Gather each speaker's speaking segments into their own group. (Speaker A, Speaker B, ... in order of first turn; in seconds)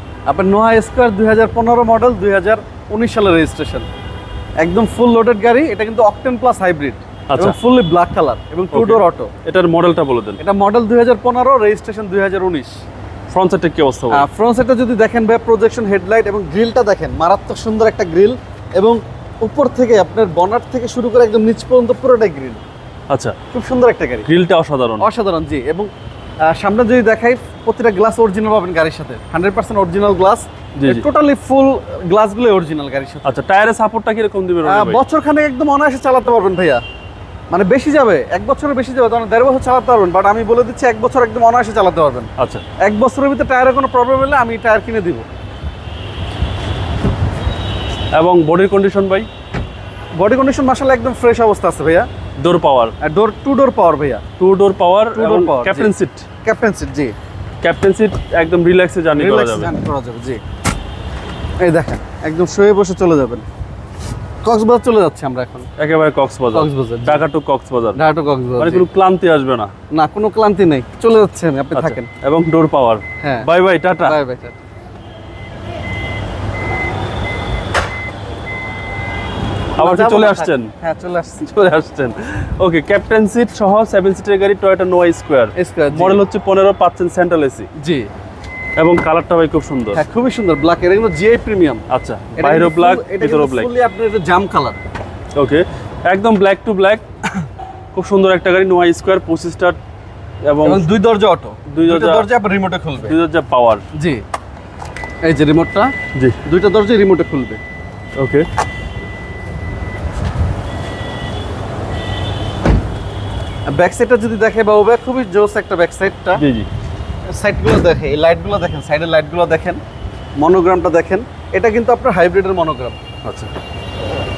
Speaker A: 0.3-3.9, 4.6-9.3, 10.4-12.7, 14.1-22.6, 23.5-24.3, 25.0-25.9, 26.4-33.4, 34.6-36.8, 37.5-42.3, 42.8-45.3, 50.2-52.1, 53.0-54.2, 55.1-55.9, 56.4-57.1, 59.1-60.4, 61.6-63.5, 64.4-65.7, 66.5-67.2, 68.0-68.9, 69.9-72.1, 73.2-73.5, 74.0-74.6, 79.8-81.5, 85.6-86.2, 87.8-88.1, 89.9-91.8, 92.4-94.8, 100.6-103.2, 104.0-104.2, 105.2-105.9, 106.5-107.6, 113.7-116.4, 117.3-119.8, 120.4-123.0
Speaker B: 7.3-7.6, 8.7-10.4, 13.3-14.2, 23.1-23.4, 24.3-25.1, 30.8-31.1, 33.2-35.0, 42.4-42.6, 48.1-49.3, 52.4-53.0, 54.4-56.2, 57.6-59.7, 65.8-68.0, 68.6-69.7, 71.7-74.2, 79.8-80.7, 81.4-87.7, 88.8-90.0, 91.9-93.7, 95.3-97.0, 97.9-99.8, 100.4-100.9, 101.7-102.3, 103.0-103.8, 106.1-106.4, 108.2-108.5, 116.4-116.7, 123.2-123.5